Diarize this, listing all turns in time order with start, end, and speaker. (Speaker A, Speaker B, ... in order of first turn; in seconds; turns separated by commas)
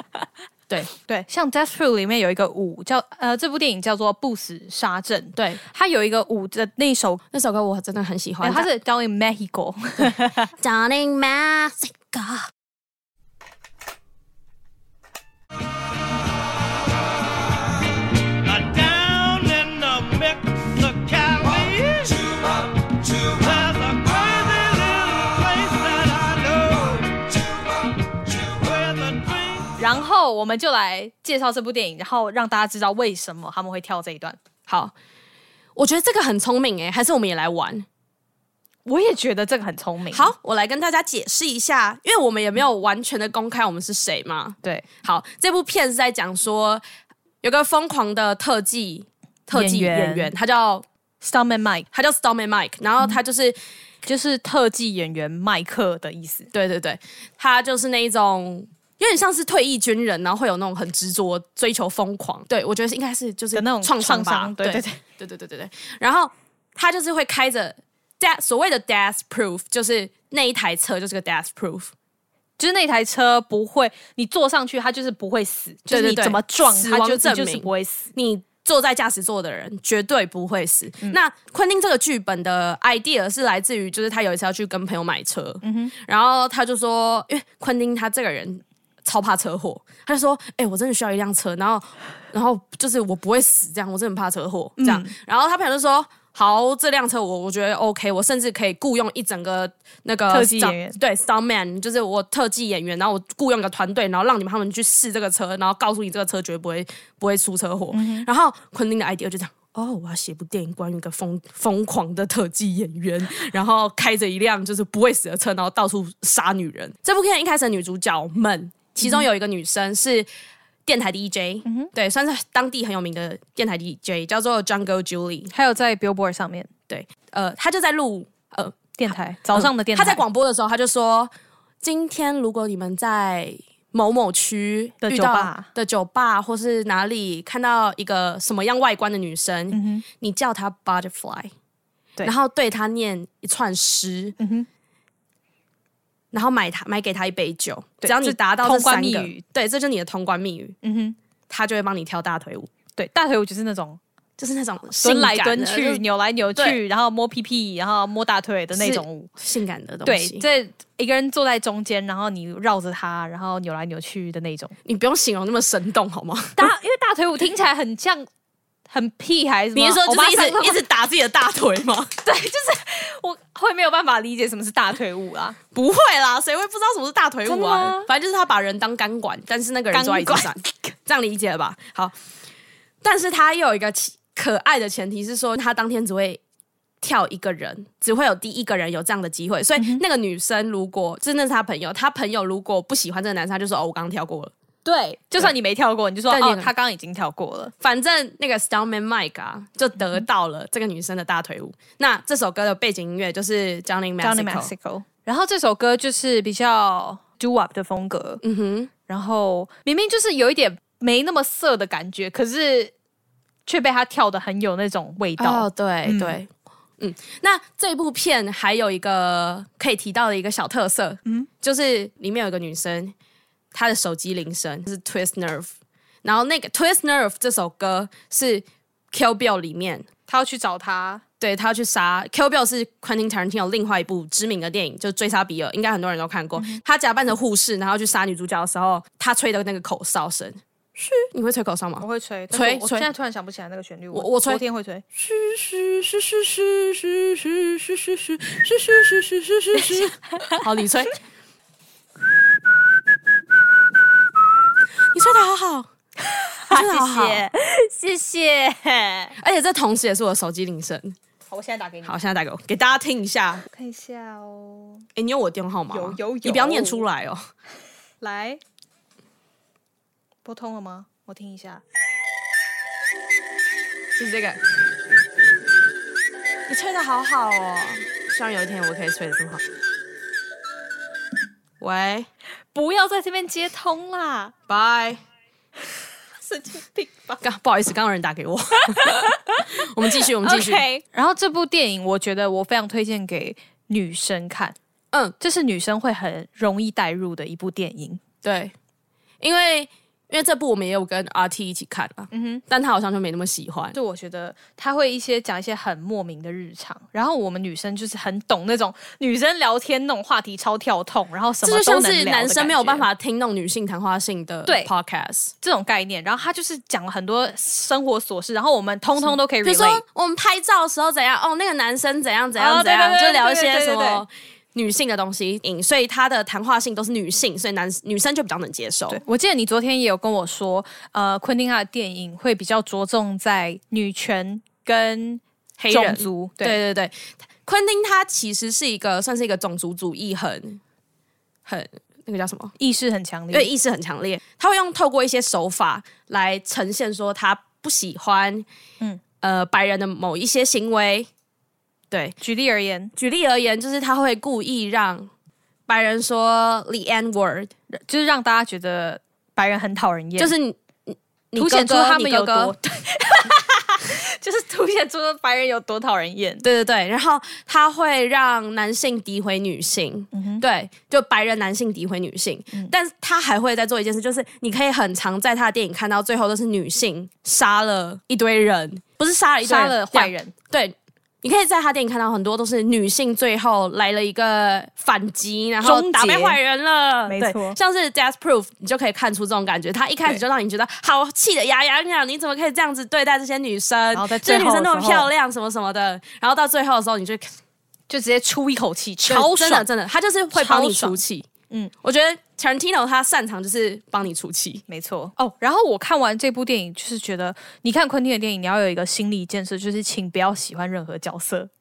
Speaker A: 1.0-7.2, Speaker B: 7.3-8.7, Speaker A: 8.4-10.5, Speaker B: 10.6-12.4, Speaker C: 18.7-19.9, Speaker C: 20.8-22.3, Speaker C: 23.2-27.2, Speaker C: 28.4-29.4, Speaker A: 29.8-34.4, Speaker B: 34.7-34.9, Speaker B: 35.8-37.9, Speaker A: 38.9-40.3, Speaker B: 40.1-46.8, Speaker B: 47.4-50.8, Speaker A: 49.5-50.3, Speaker A: 51.2-51.9, Speaker B: 51.9-53.5, Speaker A: 54.0-56.5, Speaker B: 56.5-71.9, Speaker A: 63.5-65.0, Speaker A: 72.6-78.1, Speaker B: 75.9-120.3, Speaker A: 85.6-85.9, Speaker A: 94.8-95.1, Speaker A: 100.3-101.0, Speaker A: 107.9-108.2, Speaker B: 120.8-125.5, Speaker A: 121.6-121.9, Speaker A: 125.5-126.7, Speaker B: 126.9-131.3, Speaker A: 129.0-130.2, Speaker B: 131.8-141.5, Speaker A: 135.0-135.7, Speaker A: 139.7-140.0, Speaker B: 142.2-144.4, Speaker A: 144.4-144.7, Speaker B: 146.3-150.8, Speaker A: 148.0-149.4, Speaker A: 150.8-151.2, Speaker B: 151.5-152.7, Speaker A: 152.9-154.0, Speaker B: 154.4-156.0, Speaker A: 155.0-159.3, Speaker B: 158.8-160.4, Speaker A: 160.0-164.7, Speaker B: 164.8-166.7, Speaker A: 166.6-168.3, Speaker A: 168.9-170.8, Speaker B: 169.7-172.1, Speaker A: 172.2-175.6, Speaker B: 175.7-182.1, Speaker A: 177.4-178.1, Speaker A: 179.9-180.9, Speaker B: 183.0-186.4, Speaker B: 187.0-194.5, Speaker A: 189.8-190.0, Speaker A: 194.8-197.7, Speaker B: 196.3-196.7, Speaker B: 197.8-204.7, Speaker A: 204.2-208.4, Speaker B: 208.4-208.9, Speaker A: 209.1-212.9, Speaker A: 213.7-216.4, Speaker B: 215.4-216.5, Speaker B: 217.0-223.1, Speaker B: 223.7-225.7, Speaker B: 226.2-230.1, Speaker A: 230.3-231.2, Speaker B: 231.4-243.1, Speaker A: 242.0-245.0, Speaker B: 244.1-244.6, Speaker B: 245.2-251.1, Speaker A: 249.9-250.6, Speaker B: 255.1-255.9, Speaker A: 256.5-259.3, Speaker B: 256.7-257.4, Speaker B: 259.4-261.1, Speaker A: 261.5-262.1, Speaker B: 262.0-263.6, Speaker A: 263.7-265.0, Speaker B: 265.1-267.5, Speaker A: 265.9-267.0, Speaker A: 268.2-268.6, Speaker A: 270.4-271.8, Speaker B: 274.1-274.6, Speaker B: 276.7-279.6, Speaker B: 281.8-282.3, Speaker A: 282.7-284.5, Speaker B: 284.7-285.2, Speaker A: 286.4-287.4, Speaker B: 287.4-290.8, Speaker A: 288.9-294.8, Speaker A: 295.4-298.2, Speaker B: 298.4-298.7, Speaker B: 299.4-304.0, Speaker A: 302.3-302.6, Speaker A: 303.9-313.1, Speaker B: 311.6-315.5, Speaker A: 315.6-320.0, Speaker B: 319.6-329.2, Speaker A: 322.6-324.2, Speaker A: 329.1-336.8, Speaker B: 335.8-340.8, Speaker B: 341.7-342.7, Speaker A: 342.8-343.7, Speaker B: 343.5-348.6, Speaker B: 349.4-351.3, Speaker B: 352.1-352.4, Speaker A: 352.4-353.1, Speaker B: 353.1-355.3, Speaker B: 355.9-357.7, Speaker A: 357.9-360.5, Speaker B: 360.4-362.8, Speaker A: 361.6-366.6, Speaker B: 366.6-397.5, Speaker A: 370.3-370.6, Speaker A: 379.6-380.5, Speaker A: 385.8-386.6, Speaker A: 387.3-387.8, Speaker A: 394.1-395.3, Speaker A: 398.1-399.8, Speaker B: 399.3-401.5, Speaker A: 400.5-401.2, Speaker B: 402.0-404.8, Speaker A: 404.9-411.7